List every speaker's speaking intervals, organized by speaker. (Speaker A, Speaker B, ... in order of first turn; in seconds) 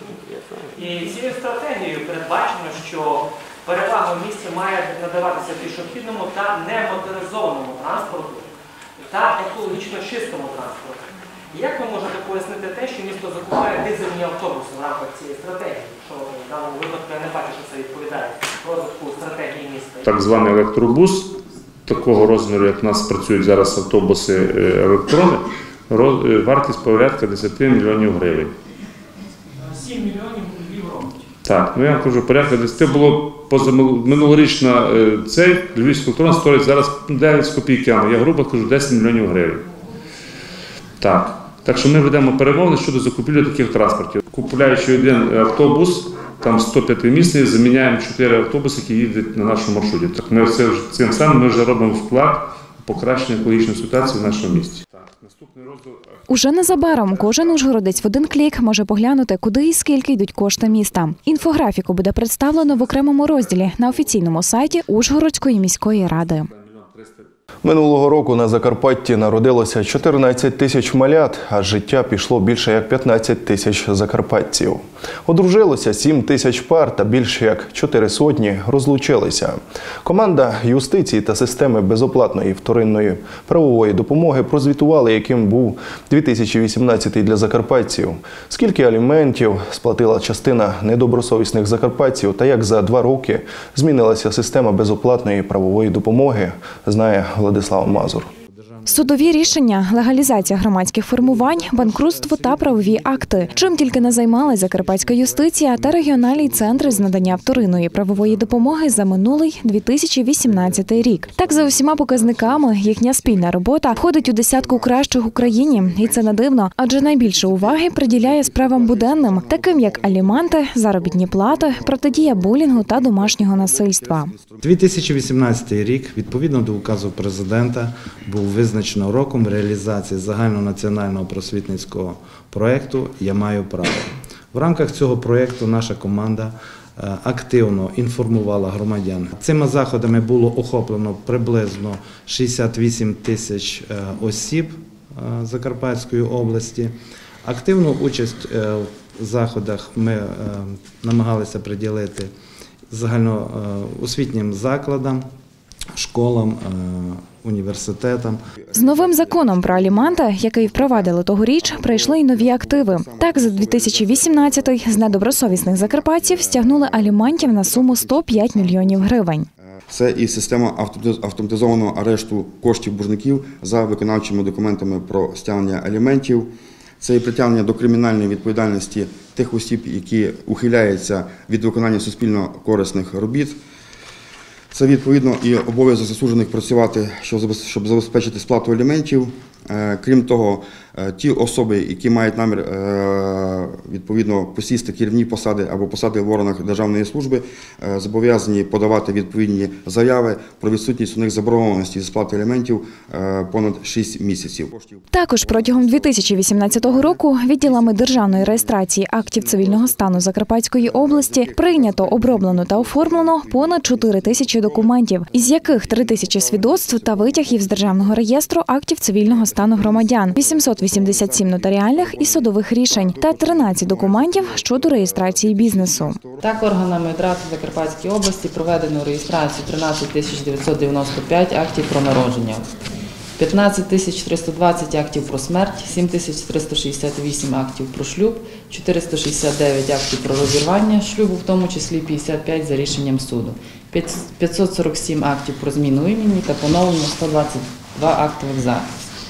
Speaker A: 0.7-20.1
Speaker B: 20.0-21.3, 21.9-28.5, 31.4-39.6, 41.0-55.8
Speaker C: 56.3-66.5, 98.9-124.3, 158.7-169.5, 205.1-226.2
Speaker D: 67.6-98.3
Speaker E: 98.5-109.7, 110.4-112.8, 124.6-152.3, 152.9-155.3, 155.9-158.4
Speaker F: 112.2-124.7, 158.6-169.3, 169.9-183.6, 184.7-218.5, 219.2-226.4
Speaker G: 226.4-232.7, 233.4-248.9